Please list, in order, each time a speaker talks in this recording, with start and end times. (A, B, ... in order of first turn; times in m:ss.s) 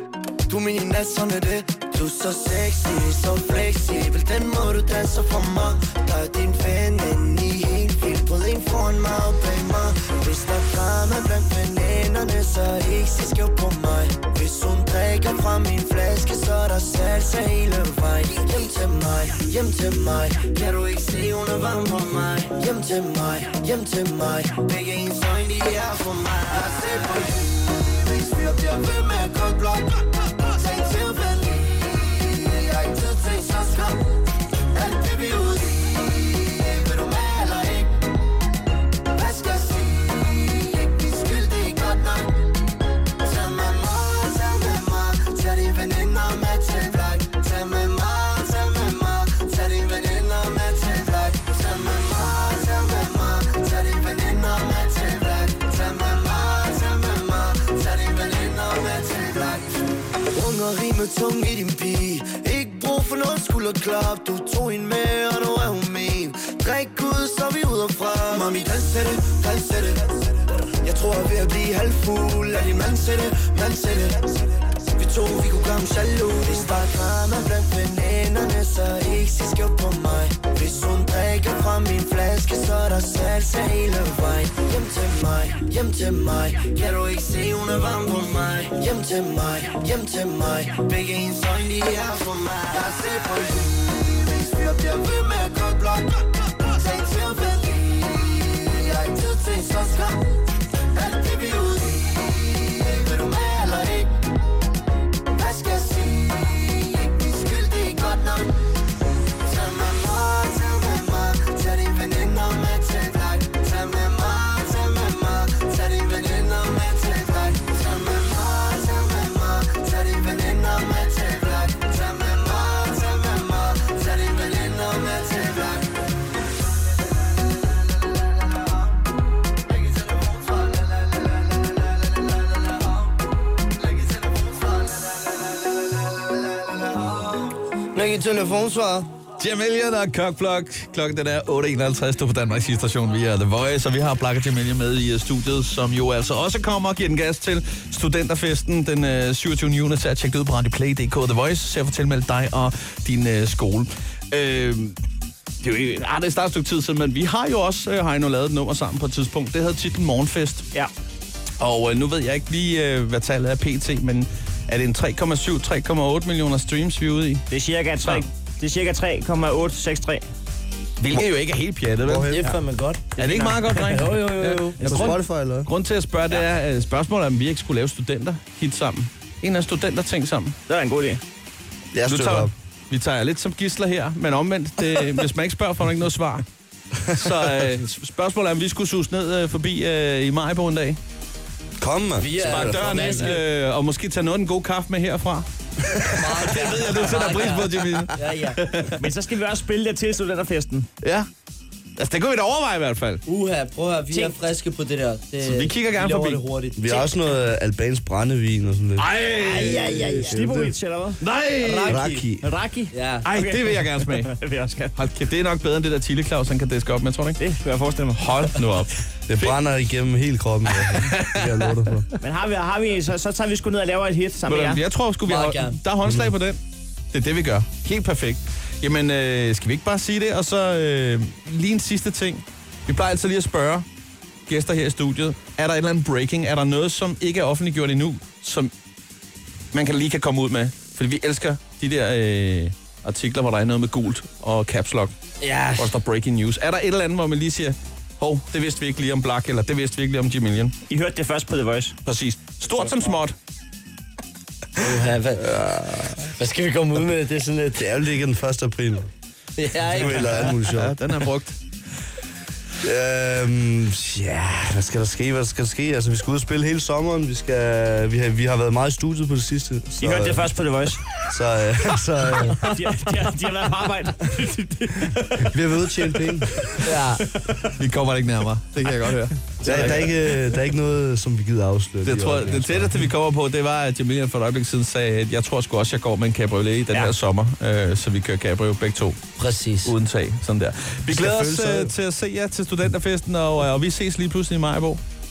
0:00.5-0:38.1 A
0:39.1-1:44.3 A
1:45.3-1:48.8 A
1:49.4-2:05.8 A
2:17.9-2:19.1 B
2:19.4-2:35.0 C
2:35.6-2:40.7 C
2:41.6-2:47.5 C
2:47.5-2:50.2 D
2:51.0-2:52.4 C
2:52.0-2:52.5 E
2:52.3-2:53.0 B
2:53.2-2:54.2 D
2:53.2-3:00.6 C
2:53.9-2:54.8 B
2:54.7-2:55.2 D
2:54.8-2:55.7 E
3:00.7-3:01.2 D
3:01.9-3:02.5 E
3:02.1-3:06.4 C
3:07.1-3:07.4 E
3:07.1-3:11.0 C
3:11.8-3:13.2 E
3:12.2-3:13.4 B
3:12.4-3:15.5 C
3:16.1-3:18.6 B
3:16.1-3:19.0 C
3:19.0-3:20.9 D
3:21.0-3:21.3 C
3:22.0-3:23.2 C
3:23.3-3:27.1 B
3:24.1-3:24.4 D
3:25.4-3:26.4 C
3:26.8-3:30.7 E
3:29.0-3:29.8 C
3:29.3-3:31.2 D
3:29.4-3:30.7 B
3:31.2-3:32.1 C
3:31.6-3:32.3 B
3:31.9-3:32.4 E
3:32.4-3:34.9 D
3:32.9-3:33.3 B
3:33.2-3:34.3 C
3:34.9-3:37.4 C
3:37.4-3:38.6 D
3:38.2-3:39.6 C
3:39.3-3:42.1 E
3:40.7-3:41.7 C
3:42.2-3:44.8 D
3:44.5-3:46.6 C
3:45.3-3:45.8 B
3:46.0-3:46.3 E
3:47.1-3:53.8 C
3:54.5-3:58.7 C
3:59.7-4:05.1 C
4:05.4-4:06.0 B
4:05.8-4:10.7 C
4:10.9-4:12.0 D
4:12.1-4:13.4 C
4:14.8-4:17.8 B
4:15.4-4:16.2 E
4:17.8-4:19.1 E
4:19.6-4:20.6 B
4:19.9-4:21.0 E
4:20.1-4:21.6 C
4:22.8-4:30.5 E
4:30.0-4:31.0 D
4:31.3-4:32.7 E
4:32.3-4:32.6 B
4:32.6-4:35.5 D
4:35.4-4:36.9 E
4:36.8-4:37.3 B
4:37.7-4:40.1 C
4:39.6-4:43.0 E
4:42.0-4:49.2 C
4:49.4-4:49.9 B
4:49.8-4:55.0 C
4:51.1-4:51.9 E